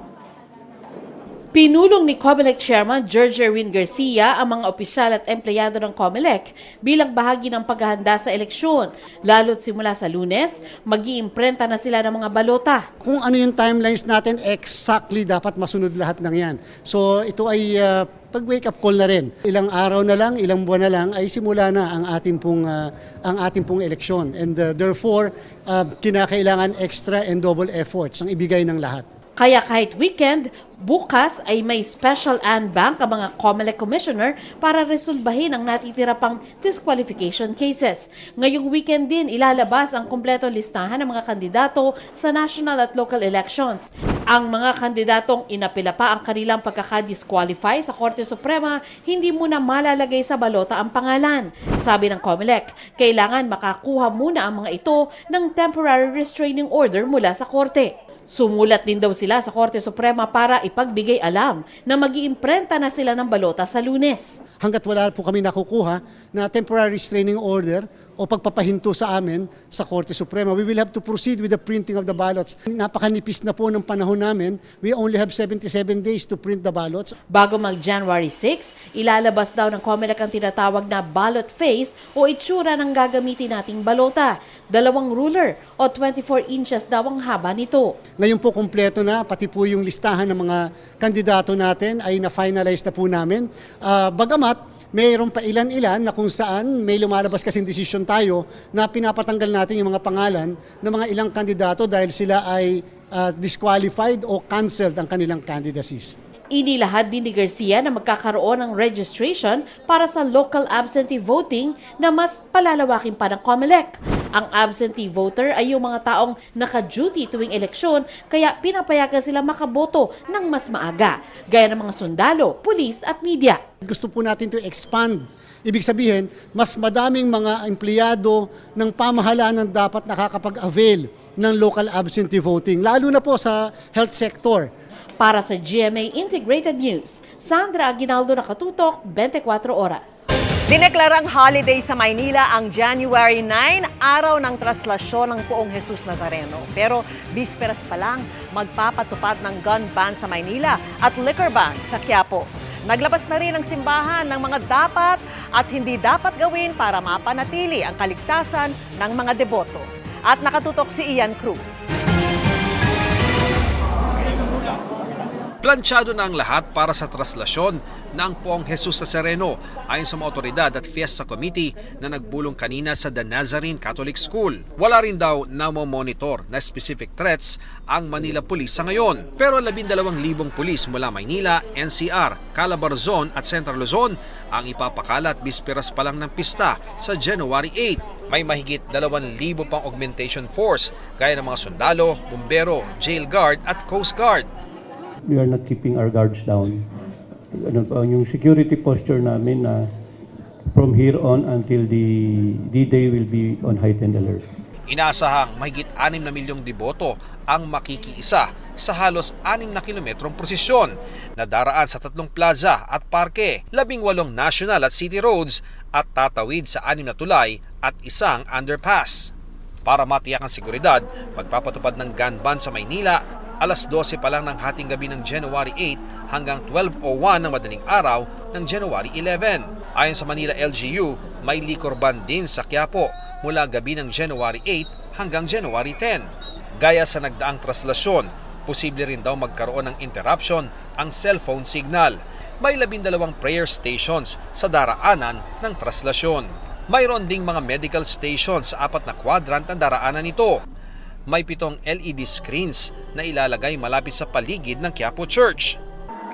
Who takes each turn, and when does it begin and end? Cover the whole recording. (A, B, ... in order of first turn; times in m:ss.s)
0:01.5-0:12.8 A
0:13.0-0:29.0 B
0:29.4-1:04.4 A
1:04.6-1:17.1 B
1:17.3-1:27.9 A
1:28.2-1:46.1 B
1:46.5-2:03.6 A
2:03.8-2:14.7 B
2:15.2-2:20.2 A
2:20.7-2:41.8 C
2:45.6-3:14.5 D
3:15.3-3:16.7 E
3:17.8-3:19.6 E
3:20.8-3:22.0 E
3:22.8-3:24.4 E
3:24.9-3:39.3 D
3:39.8-3:56.2 D
3:56.8-4:10.6 D
4:11.3-4:15.8 D